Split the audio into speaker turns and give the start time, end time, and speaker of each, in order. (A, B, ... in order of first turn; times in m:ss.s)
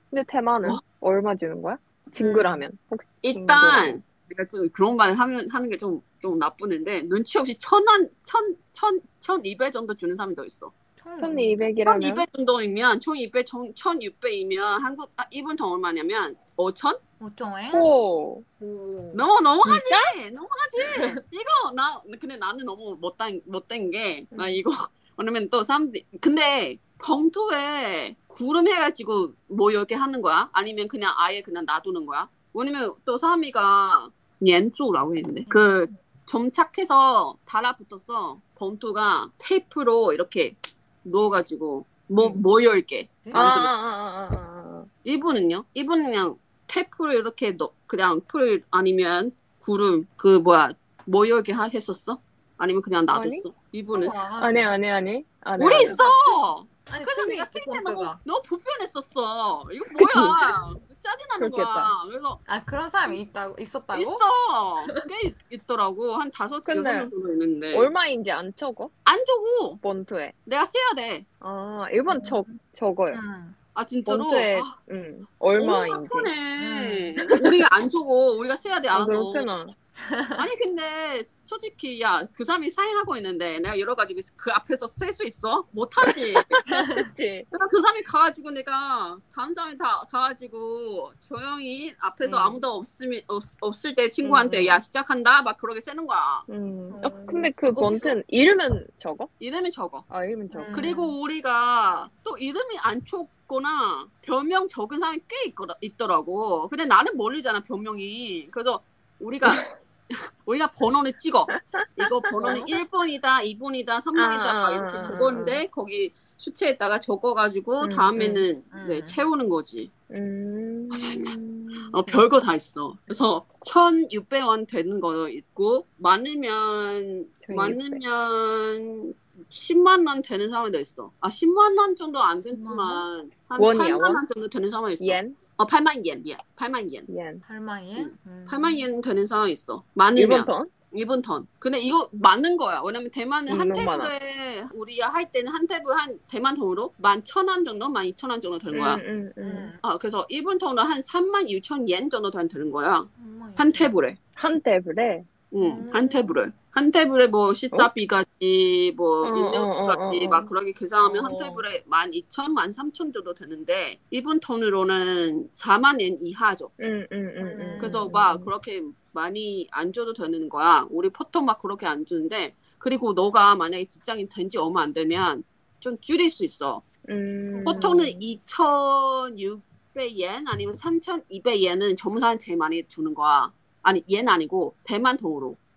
0:00.1-0:04.0 A
0:02.2-0:02.7 B
0:03.2-0:10.7 C
0:11.0-0:11.7 B
0:11.2-0:12.3 A
0:11.8-0:17.0 C
0:17.2-0:17.9 B
0:17.7-0:18.4 A
0:18.6-0:19.3 B
0:19.1-0:43.7 C
0:19.6-0:20.1 A
0:20.8-0:21.2 B
0:24.3-0:24.6 A
0:35.5-0:36.0 B
0:42.2-0:42.5 B
0:43.2-0:43.5 B
0:43.3-0:44.9 A
0:45.0-0:54.2 C
0:53.1-0:53.5 A
0:53.9-0:54.8 B
0:54.4-0:56.0 A
0:55.6-1:02.4 C
0:55.7-0:58.2 B
1:00.0-1:00.4 A
1:01.4-1:01.9 A
1:02.5-1:04.3 B
1:03.9-1:07.9 C
1:04.8-1:05.1 B
1:06.6-1:07.1 A
1:07.7-1:08.9 A
1:09.1-1:09.8 C
1:09.8-1:10.4 A
1:10.5-1:11.2 C
1:11.4-1:13.2 A
1:12.1-1:13.6 B
1:13.8-1:14.8 C
1:14.1-1:16.4 A
1:15.5-1:19.5 C
1:16.6-1:17.4 B
1:18.9-1:19.8 A
1:20.0-1:20.5 B
1:20.4-1:26.6 C
1:26.0-1:27.5 A
1:26.7-1:27.1 B
1:27.5-1:36.5 C
1:32.2-1:32.6 A
1:34.2-1:34.8 A
1:36.5-1:39.3 A
1:36.9-1:38.2 B
1:39.4-1:40.1 C
1:40.1-1:41.0 A
1:40.5-1:41.2 B
1:40.7-1:59.9 C
1:49.4-1:49.7 A
1:51.5-1:52.7 A
1:54.2-1:55.6 A
1:57.8-1:58.5 A
1:58.7-1:59.3 B
2:00.1-2:02.2 A
2:00.9-2:17.1 C
2:07.4-2:08.0 A
2:12.4-2:13.1 B
2:13.6-2:14.2 A
2:15.0-2:15.4 A
2:17.1-2:17.4 A
2:17.4-2:18.9 B
2:18.0-2:29.0 C
2:20.2-2:20.7 A
2:23.5-2:24.1 A
2:28.7-2:29.7 A
2:29.4-2:29.8 B
2:29.8-2:34.2 C
2:33.2-2:34.0 B
2:34.4-2:35.3 A
2:35.5-2:46.7 C
2:35.6-2:36.4 B
2:39.2-2:40.5 A
2:41.0-2:41.6 B
2:46.8-2:48.5 A
2:47.4-2:48.3 B
2:47.8-2:56.8 C
2:57.0-2:58.2 A
2:57.5-2:58.0 B
2:57.6-3:05.6 C